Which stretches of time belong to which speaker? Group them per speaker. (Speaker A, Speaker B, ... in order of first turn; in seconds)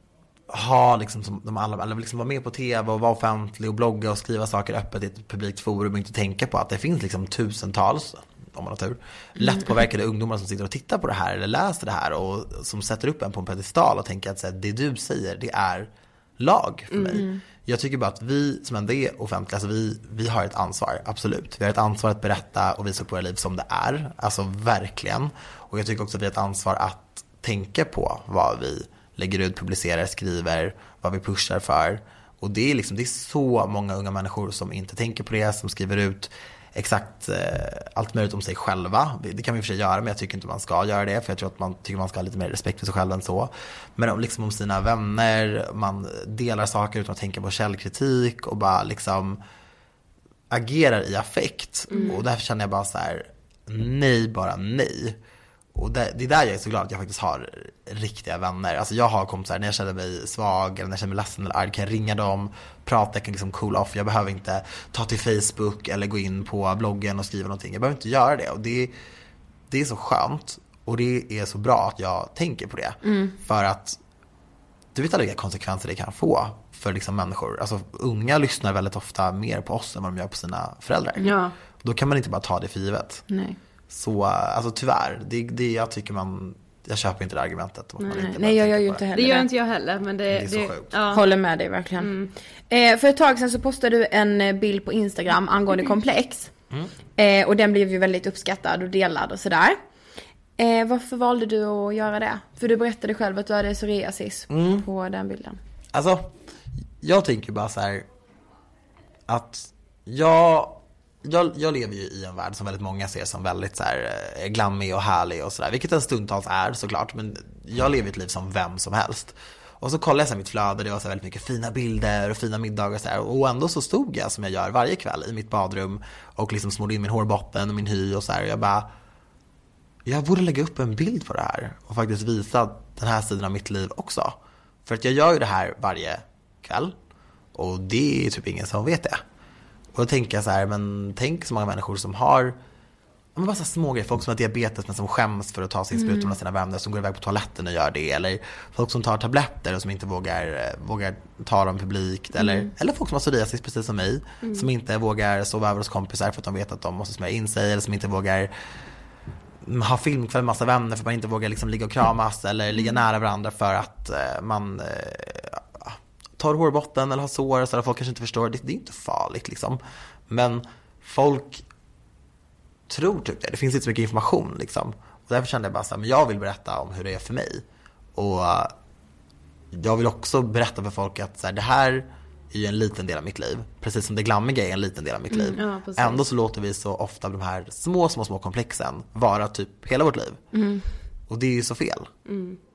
Speaker A: 0.5-49.4, 50.5-55.2, 55.7-68.9, 69.7-74.0, 74.9-83.2, 83.9-89.0, 90.3-90.9, 104.5-104.8, 105.9-106.3, 107.0-108.1, 109.3-128.9, 130.1-136.9, 137.5-139.2, 139.9-142.6, 143.3-158.5, 159.6-171.6, 172.9-177.6, 178.1-178.7, 179.7-190.4, 191.3-192.1
Speaker B: 9.4-9.8, 73.0-73.3, 83.3-83.6, 88.2-89.5, 91.1-92.1, 92.7-96.5, 97.2-99.8, 100.6-105.6, 145.9-146.3, 152.4-152.7, 190.5-190.8
Speaker C: 16.9-17.2, 51.9-52.2, 81.2-81.5, 88.0-88.2, 89.1-91.3, 92.0-92.3, 154.4-154.7, 185.3-186.2, 192.2-192.6